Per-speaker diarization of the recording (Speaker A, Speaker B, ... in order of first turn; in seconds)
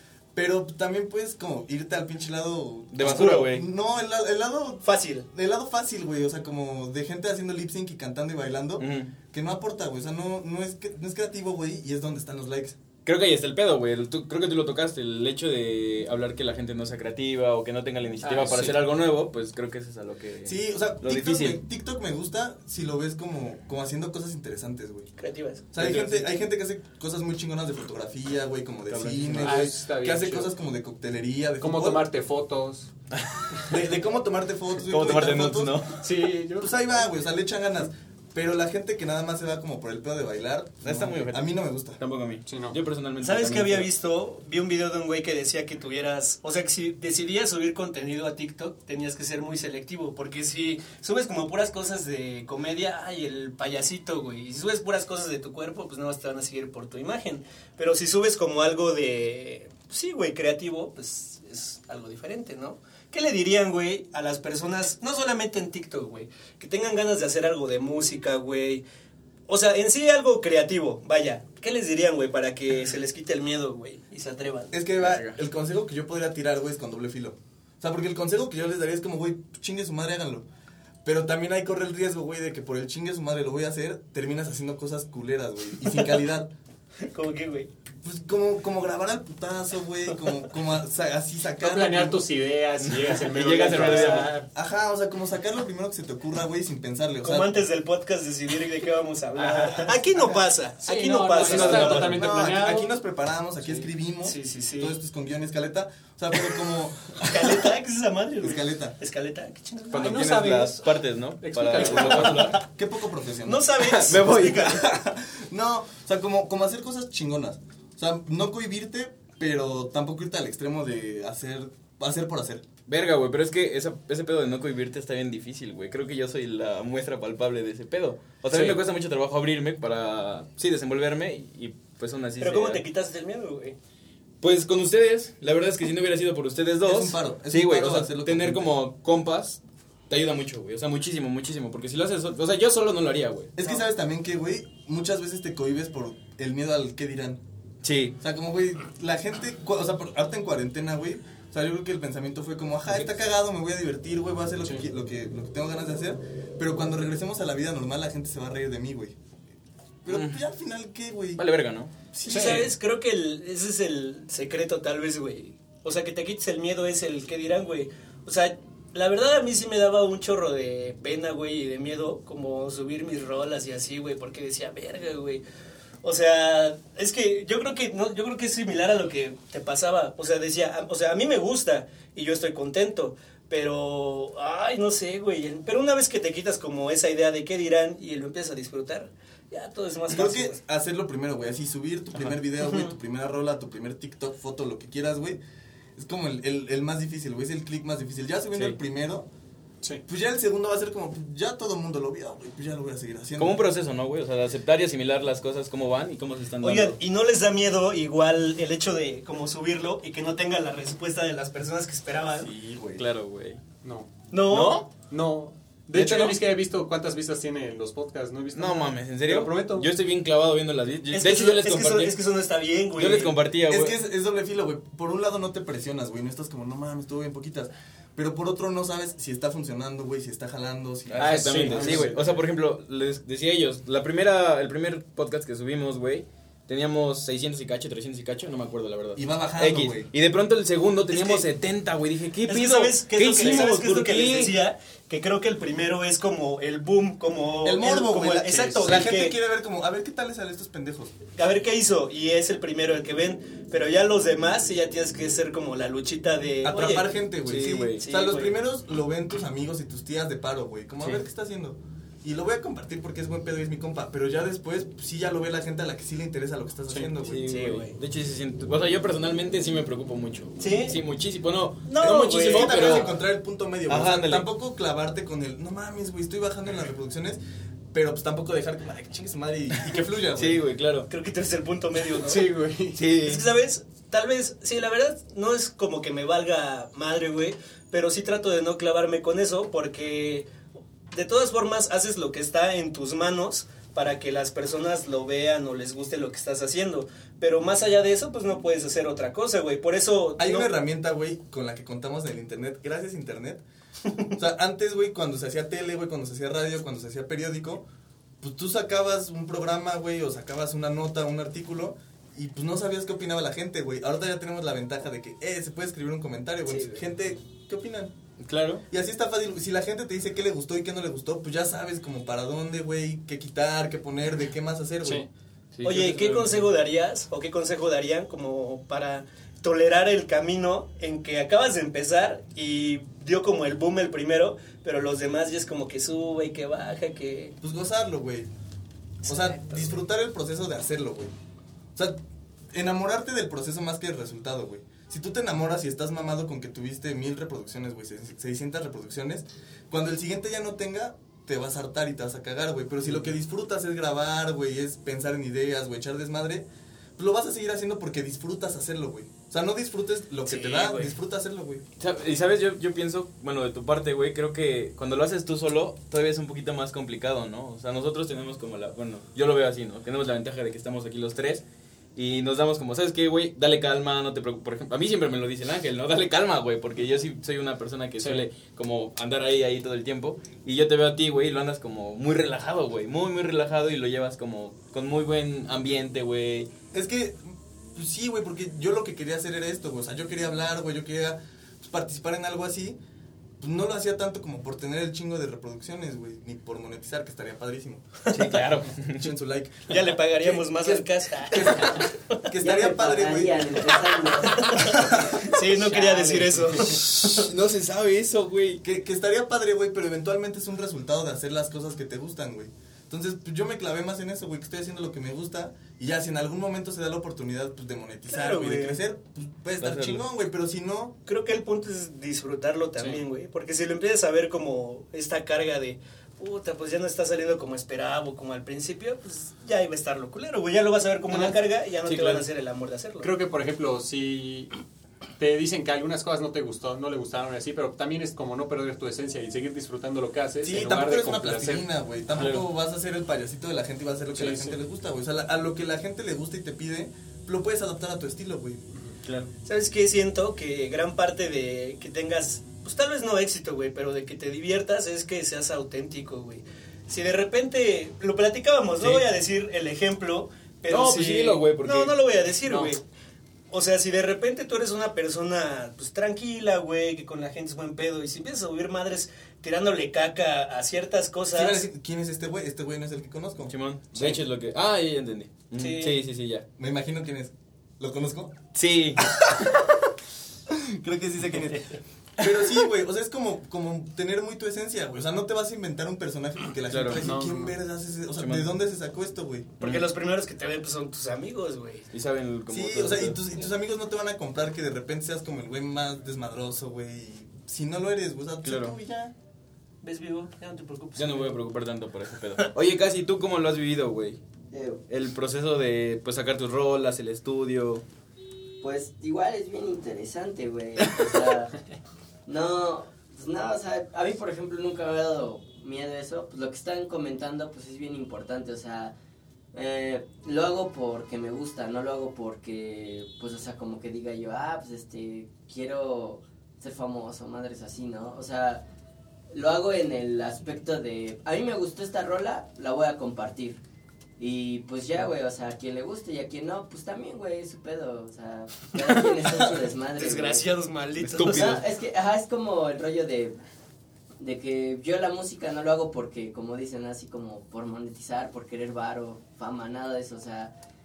Speaker A: 0.3-12.8, 20.4-25.1, 25.7-32.0, 33.7-35.9, 36.6-42.0, 74.7-80.4, 81.0-86.5, 88.0-92.3, 93.6-97.7, 101.4-107.7, 108.4-109.0, 111.8-122.6, 136.8-138.8, 143.5-147.4, 148.2-159.1, 160.0-161.4, 162.1-162.7, 190.1-195.4, 195.9-199.3, 200.1-203.6, 212.3-213.1, 223.7-232.3, 239.2-240.1, 247.6-251.1, 256.6-267.5, 272.0-277.4, 277.9-280.6, 300.4-303.6, 304.3-307.8, 308.4-318.1, 318.9-325.2, 337.6-338.5, 339.3-341.3, 342.7-356.6, 357.2-361.8, 386.9-393.0, 393.6-398.0, 399.1-400.2, 401.5-403.9, 404.9-405.4, 408.8-421.1, 440.6-448.8, 471.5-474.3, 476.8-478.6, 479.2-479.8, 480.7-489.8, 492.7-499.3
Speaker B: 2.9-3.7, 8.8-9.1, 13.0-21.6, 25.8-26.3, 28.9-29.7, 33.1-33.6, 34.9-36.0, 40.8-43.9, 75.0-75.4, 92.8-94.3, 101.4-102.3, 109.9-112.6, 113.8-114.9, 122.9-132.8, 134.4-143.5, 147.8-148.2, 160.1-160.4, 161.4-161.9, 203.4-207.0, 212.9-213.6, 214.5-214.9, 215.9-216.4, 218.5-222.2, 222.9-224.0, 231.1-244.6, 257.4-258.0, 267.2-273.1, 273.9-274.5, 280.4-281.1, 282.9-283.4, 318.4-318.8, 325.7-326.7, 362.0-371.6, 372.1-386.7, 398.3-399.3, 406.9-408.8, 419.8-420.2, 432.0-432.4, 442.3-442.7, 449.2-449.5, 460.9-462.2, 473.7-476.6, 478.7-479.4, 486.9-487.2, 488.4-488.7, 489.8-490.1, 492.1-493.4, 498.6-498.9, 501.2-504.4, 505.1-508.0, 541.2-541.8
Speaker C: 4.8-5.3, 25.2-25.6, 43.2-68.8, 69.5-74.8, 87.0-87.7, 97.2-102.2, 104.2-104.9, 107.2-110.2, 113.4-114.9, 132.4-133.8, 162.2-175.4, 176.0-190.6, 192.6-192.9, 206.6-212.5, 214.3-214.8, 221.1-223.4, 241.1-241.5, 242.4-249.4, 251.3-257.1, 258.0-258.6, 267.4-268.0, 270.6-271.0, 271.8-273.1, 281.1-282.5, 283.2-290.5, 291.1-300.7, 325.8-337.6, 339.2-340.0, 360.4-361.1, 398.2-398.6, 399.9-402.4, 404.4-407.4, 418.3-419.0, 421.2-433.3, 449.6-463.0, 463.7-471.8, 475.8-476.2, 489.8-492.1, 500.0-501.6, 540.1-541.8
Speaker D: 18.2-18.9, 29.4-30.5, 31.6-32.9, 36.0-36.8, 42.5-42.8, 91.6-94.5, 99.5-99.9, 100.8-102.9, 109.9-112.6, 128.5-128.8, 162.3-162.7, 213.8-214.1, 215.0-219.9, 231.2-232.3, 248.5-249.0, 282.1-283.0, 378.2-378.4, 405.8-406.8, 423.0-423.2, 433.2-434.7, 435.4-441.8, 444.3-444.8, 448.9-449.2, 487.2-487.7
Speaker E: 402.6-405.5, 504.7-505.0, 508.8-511.7, 512.5-519.1, 519.7-528.8, 529.5-533.8, 534.4-540.7, 541.4-543.5, 544.4-550.7